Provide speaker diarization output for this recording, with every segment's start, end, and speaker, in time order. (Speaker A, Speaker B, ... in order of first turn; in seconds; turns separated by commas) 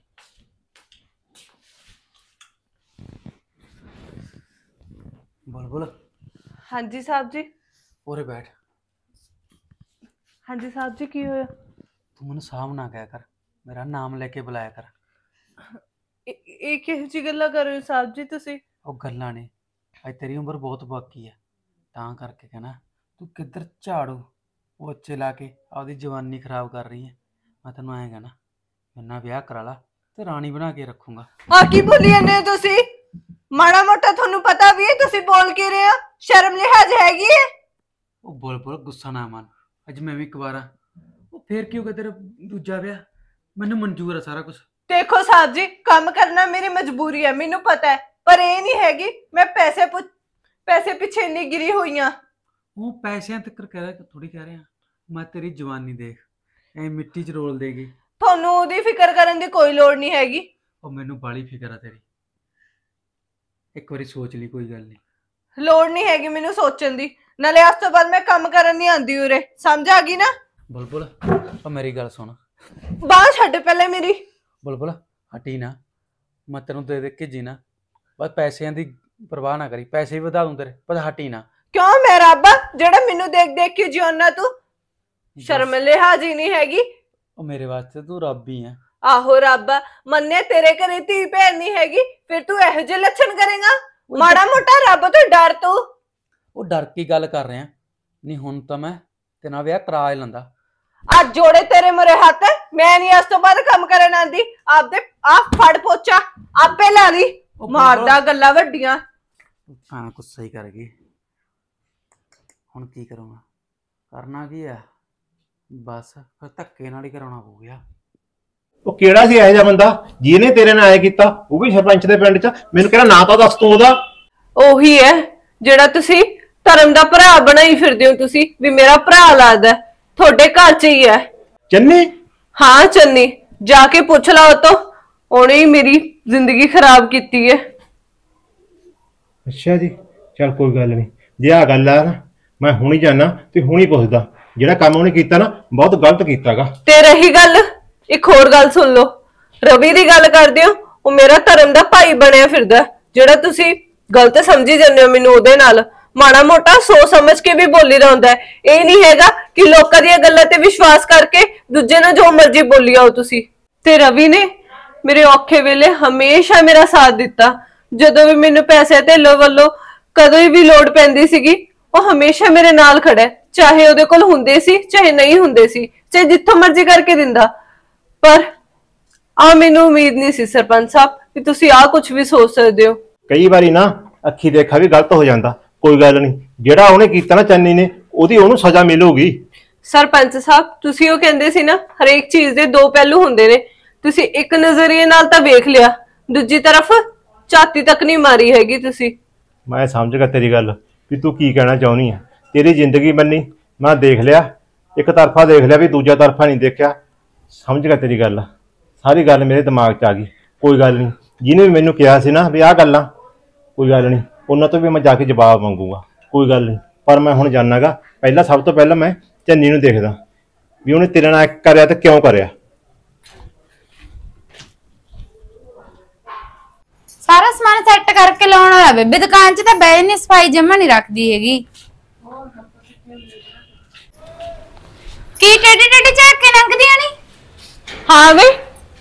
Speaker A: 5.5-5.9, Speaker B: 6.7-7.5, Speaker A: 8.1-8.5, Speaker B: 10.5-11.5, Speaker A: 12.2-14.9, Speaker B: 16.3-18.6, Speaker A: 18.9-19.5, Speaker A: 20.0-21.4, Speaker A: 21.9-24.2, Speaker A: 24.8-28.3, Speaker A: 28.9-31.3, Speaker B: 31.5-32.8, Speaker B: 33.5-37.5, Speaker A: 38.2-40.7, Speaker A: 41.3-43.0, Speaker A: 43.6-44.6, Speaker B: 44.9-50.1, Speaker B: 50.7-52.1, Speaker A: 52.8-56.2, Speaker A: 56.8-57.9, Speaker B: 58.2-60.5, Speaker A: 60.8-62.0, Speaker A: 63.8-65.0, Speaker B: 65.6-70.3, Speaker A: 70.7-72.4, Speaker B: 73.0-74.2, Speaker A: 74.6-75.8, Speaker A: 76.5-77.6, Speaker A: 78.2-81.5, Speaker B: 81.7-84.5, Speaker A: 85.4-85.7, Speaker B: 85.4-86.8, Speaker A: 87.4-88.8, Speaker B: 89.0-95.9, Speaker A: 94.1-94.6, Speaker A: 96.5-97.7, Speaker A: 98.2-100.5, Speaker B: 101.1-109.0, Speaker A: 107.6-108.2, Speaker A: 109.7-110.9, Speaker A: 112.7-113.4, Speaker A: 114.1-114.8, Speaker A: 115.8-117.8, Speaker C: 118.9-124.0, Speaker B: 124.6-131.3, Speaker C: 131.7-132.1, Speaker B: 132.6-137.6, Speaker C: 139.5-146.7, Speaker B: 146.9-164.5, Speaker B: 165.0-177.5, Speaker B: 179.4-183.0, Speaker C: 183.3-189.4, Speaker B: 189.9-199.2, Speaker C: 199.7-207.0, Speaker C: 207.6-208.5, Speaker C: 209.0-213.1, Speaker C: 213.8-220.2, Speaker C: 220.8-222.5, Speaker D: 227.3-231.6, Speaker D: 235.4-237.1, Speaker B: 238.1-238.6